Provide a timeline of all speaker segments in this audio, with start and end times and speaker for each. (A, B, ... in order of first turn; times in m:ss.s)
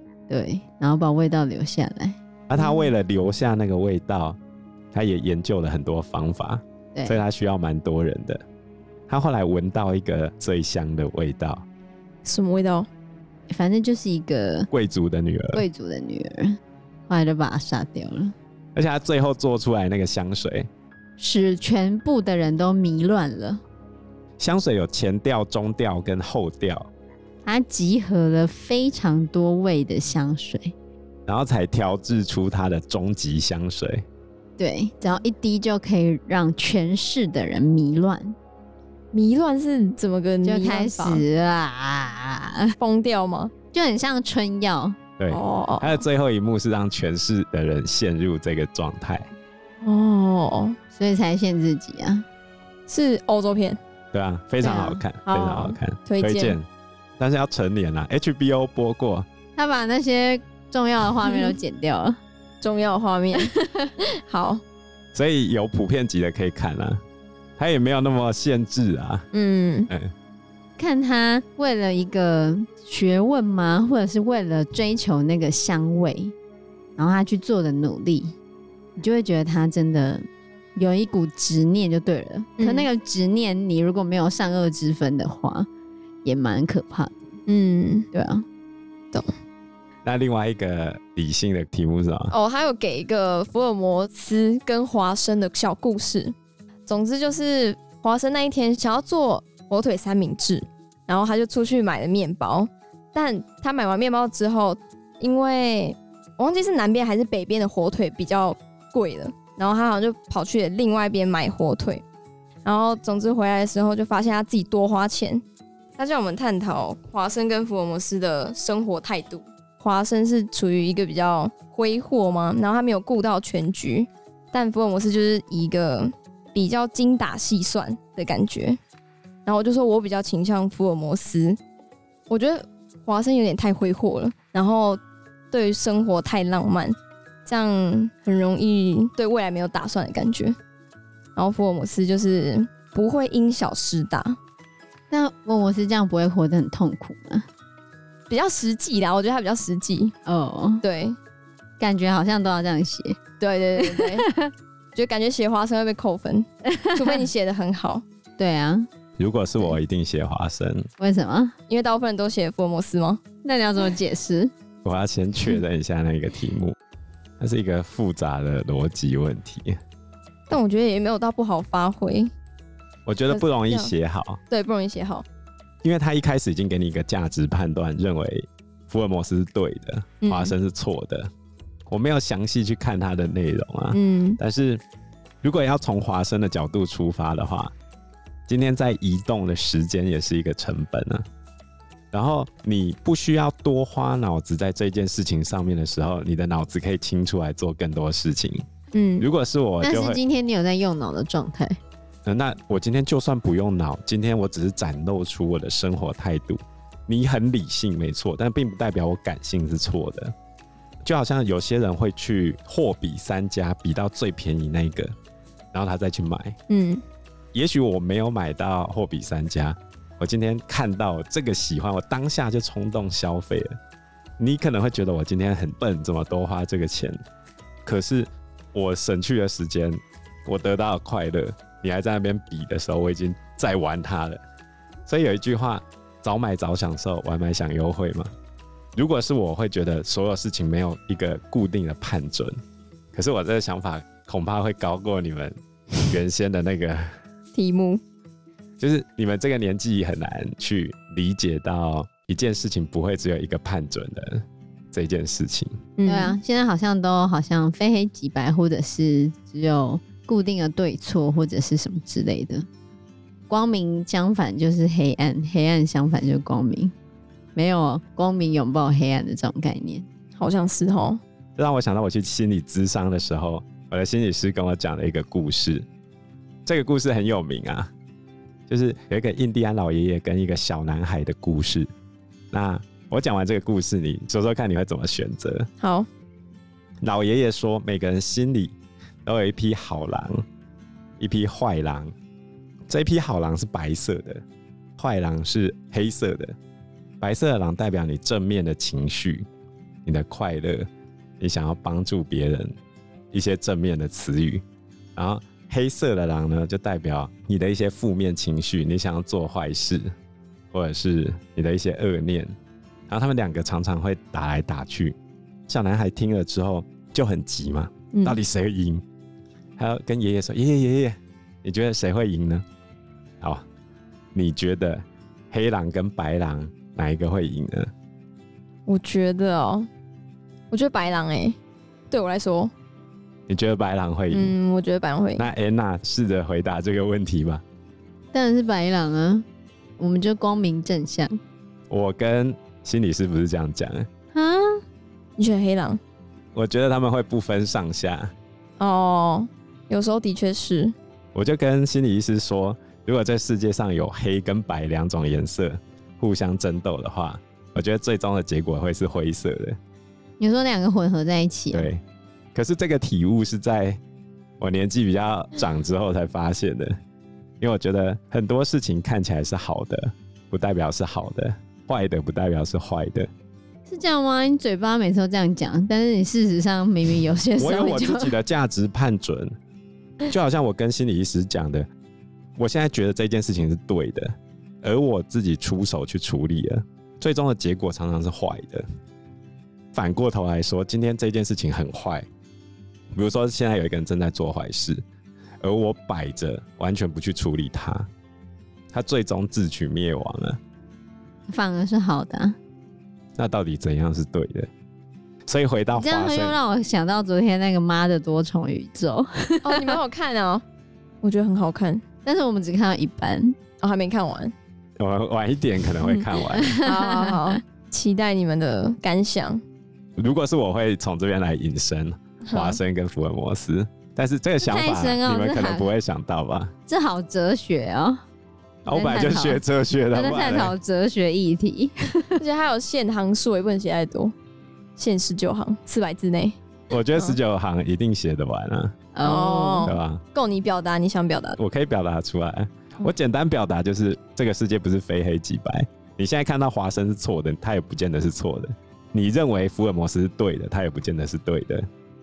0:00.3-0:02.2 A
0:02.5-0:04.4 B
0:02.6-0:02.9 C
0:04.9-0:08.4 B
0:06.9-0:07.2 A
0:09.1-0:11.6 B
0:12.2-0:12.9 C
0:13.5-0:14.7 A
0:14.7-0:15.6 B
0:15.5-0:18.3 A
0:18.7-0:20.7 B
0:21.2-0:23.6 A
0:24.4-0:26.9 B
0:27.4-0:30.7 A
0:31.3-0:34.0 B
0:34.6-0:38.4 A
0:39.1-0:41.2 C
0:40.4-0:42.7 A
0:42.8-0:43.5 C
0:43.7-0:45.0 A
0:45.2-0:49.3 B
0:45.3-0:46.0 C
0:49.8-0:50.8 C
0:50.9-0:52.2 A
0:52.9-0:53.8 C
0:54.1-0:56.6 B
0:54.6-0:55.0 A
0:55.2-0:56.6 C
0:57.2-0:59.3 B
0:59.5-1:02.2 A
1:02.6-1:04.6 C
1:03.4-1:03.9 A
1:05.1-1:07.0 B
1:07.6-1:09.2 B
1:09.3-1:09.9 C
1:10.8-1:16.3 A
1:17.0-1:18.3 A
1:19.0-1:20.2 A
1:20.8-1:25.7 A
1:22.6-1:22.9 C
1:26.2-1:27.2 A
1:27.5-1:28.1 C
1:28.1-1:28.4 A
1:30.0-1:32.3 B
1:32.3-1:36.3 C
1:36.9-1:52.0 C
1:52.6-1:55.4 C
1:56.0-2:08.8 C
2:09.4-2:11.6 C
2:12.3-2:15.0 C
2:15.5-2:20.6 C
2:21.4-2:24.4 C
2:25.1-2:27.5 A
2:28.3-2:30.1 C
2:30.2-2:30.8 A
2:30.8-2:31.2 C
2:31.8-2:33.2 A
2:33.4-2:34.3 C
2:33.8-2:34.5 A
2:34.9-2:38.0 C
2:36.6-2:37.2 A
2:38.4-2:38.9 A
2:39.2-2:40.9 B
2:41.0-2:41.5 A
2:41.7-2:43.2 C
2:43.4-2:44.5 A
2:44.8-2:46.8 B
2:47.4-2:49.8 B
2:50.5-2:52.3 C
2:53.0-2:54.4 B
2:53.3-2:53.9 C
2:54.5-2:55.2 C
2:55.8-3:01.3 B
3:00.2-3:00.5 C
3:01.9-3:04.8 B
3:03.9-3:04.4 C
3:05.4-3:07.7 B
3:08.5-3:11.2 B
3:12.1-3:18.6 B
3:18.9-3:19.3 C
3:19.2-3:20.2 B
3:19.8-3:21.8 A
3:22.2-3:30.3 B
3:31.0-3:35.1 B
3:35.7-3:36.6 B
3:36.7-3:37.0 C
3:37.5-3:43.8 B
3:44.4-3:47.2 B
3:47.8-3:54.4 B
3:55.1-3:58.3 B
3:58.9-4:02.6 B
4:03.1-4:07.2 B
4:07.5-4:08.0 C
4:08.8-4:15.8 B
4:16.0-4:16.4 C
4:16.0-4:22.7 A
4:23.5-4:26.9 A
4:27.5-4:30.1 A
4:30.4-4:31.2 C
4:31.6-4:35.8 B
4:36.6-4:37.9 B
4:38.7-4:41.9 B
4:42.5-4:45.7 B
4:45.8-4:46.1 C
4:47.0-4:48.7 B
4:49.2-4:50.4 B
4:51.2-4:52.1 B
4:52.9-4:54.4 B
4:55.0-4:56.5 B
4:57.2-4:59.4 B
5:00.0-5:00.9 B
5:01.4-5:02.7 B
5:03.3-5:04.6 B
5:05.2-5:10.1 B
5:10.7-5:12.5 B
5:13.1-5:15.2 B
5:15.7-5:19.0 B
5:18.1-5:18.4 C
5:19.8-5:22.6 B
5:24.3-5:27.9 B
5:28.9-5:29.9 C
5:30.7-5:31.6 C
5:32.1-5:32.7 C
5:33.5-5:34.5 B
5:34.3-5:35.4 C
5:35.4-5:37.6 B
5:38.3-5:39.4 A
5:40.0-5:41.4 A
5:41.9-5:44.1 B
5:44.3-5:44.8 A
5:45.4-5:46.0 C
5:46.5-5:48.3 B
5:48.8-5:50.9 C
5:51.3-5:59.8 B
6:00.4-6:01.9 A
6:01.7-6:02.0 B
6:02.5-6:04.0 B
6:04.6-6:07.0 B
6:07.6-6:13.3 B
6:13.8-6:18.3 A
6:17.6-6:19.5 B
6:20.2-6:21.9 B
6:22.6-6:28.8 B
6:29.9-6:32.2 B
6:33.1-6:35.0 B
6:35.6-6:38.1 B
6:38.9-6:40.6 B
6:41.5-6:42.6 A
6:43.4-6:44.7 B
6:45.5-6:46.6 B
6:45.9-6:50.0 A
6:49.6-6:50.6 C
6:51.2-6:52.0 C
6:52.2-6:53.6 A
6:53.8-6:54.5 C
6:55.0-6:56.8 B
6:56.5-6:57.6 A
6:56.8-6:59.6 C
7:00.2-7:06.7 B
7:02.5-7:02.8 C
7:04.6-7:05.9 A
7:06.9-7:08.2 A
7:08.8-7:10.7 B
7:08.8-7:12.4 A
7:12.4-7:14.3 C
7:15.0-7:16.6 C
7:16.9-7:19.0 B
7:19.1-7:19.9 A
7:19.2-7:21.6 C
7:19.8-7:20.2 B
7:21.6-7:31.8 B